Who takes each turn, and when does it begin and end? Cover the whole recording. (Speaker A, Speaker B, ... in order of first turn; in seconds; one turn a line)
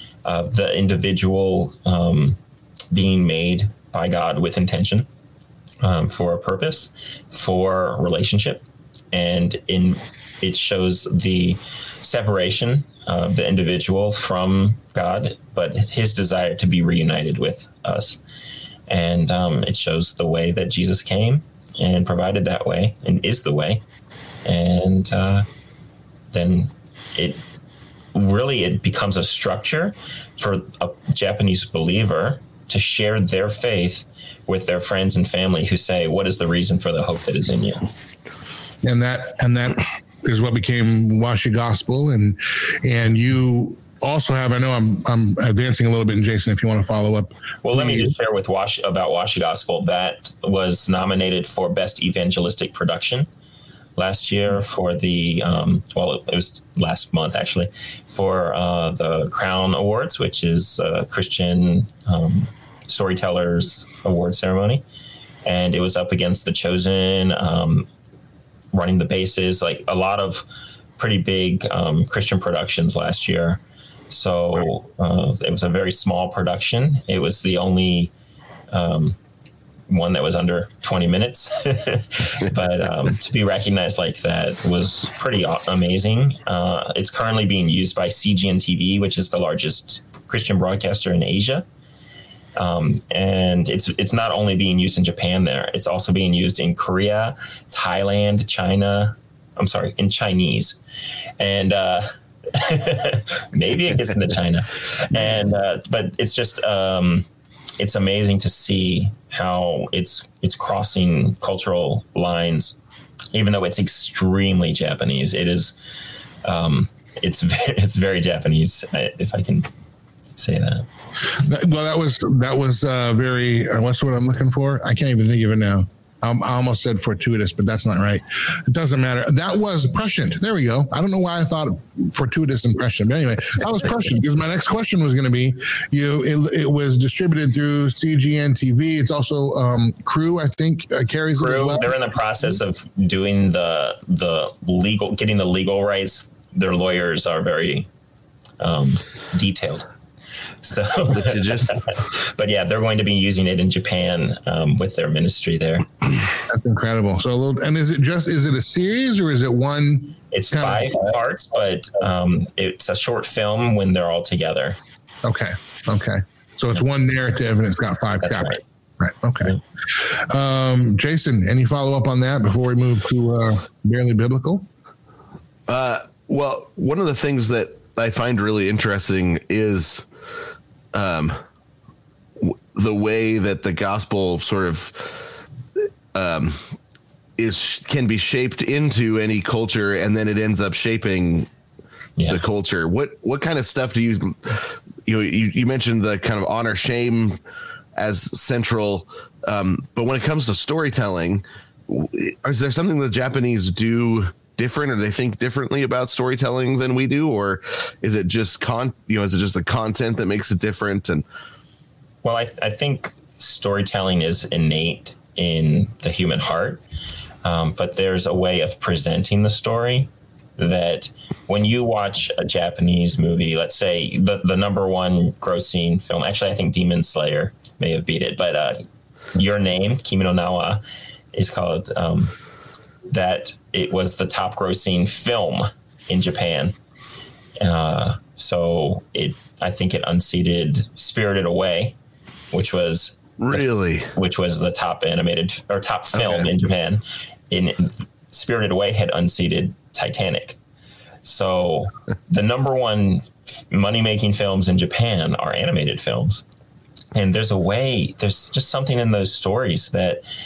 Speaker A: 0.2-2.4
Speaker A: 2.9-5.1
Speaker A: 5.8-18.2
Speaker A: 18.9-23.8
Speaker A: 24.4-25.4
Speaker A: 26.3-27.4
Speaker A: 28.1-37.8
Speaker B: 38.8-48.1
Speaker A: 47.6-53.3
Speaker A: 54.0-64.8
Speaker A: 65.4-67.9
Speaker A: 68.7-70.4
Speaker A: 71.0-78.1
Speaker A: 78.7-79.2
Speaker A: 79.9-91.6
Speaker A: 92.6-100.8
Speaker A: 101.4-107.2
Speaker A: 107.8-112.8
Speaker A: 113.3-115.7
Speaker A: 116.4-119.7
Speaker A: 120.4-120.8
Speaker B: 121.3-141.9
Speaker A: 141.4-147.9
Speaker A: 148.6-149.9
Speaker A: 150.6-155.9
Speaker C: 151.1-151.8
Speaker B: 156.5-161.1
Speaker A: 160.3-164.8
Speaker B: 165.2-174.7
Speaker A: 168.2-168.6
Speaker C: 175.7-180.1
Speaker C: 180.9-181.4
Speaker C: 182.4-185.2
Speaker C: 186.1-186.7
Speaker C: 187.4-191.5
Speaker C: 192.3-197.4
Speaker C: 197.9-211.2
Speaker A: 212.2-216.8
Speaker A: 217.4-228.8
Speaker A: 229.3-230.8
Speaker A: 231.3-232.3
Speaker A: 233.1-236.7
Speaker A: 237.6-241.9
Speaker A: 242.5-250.6
Speaker C: 243.4-244.1
Speaker C: 246.1-246.5
Speaker A: 251.2-256.4
Speaker A: 257.1-260.2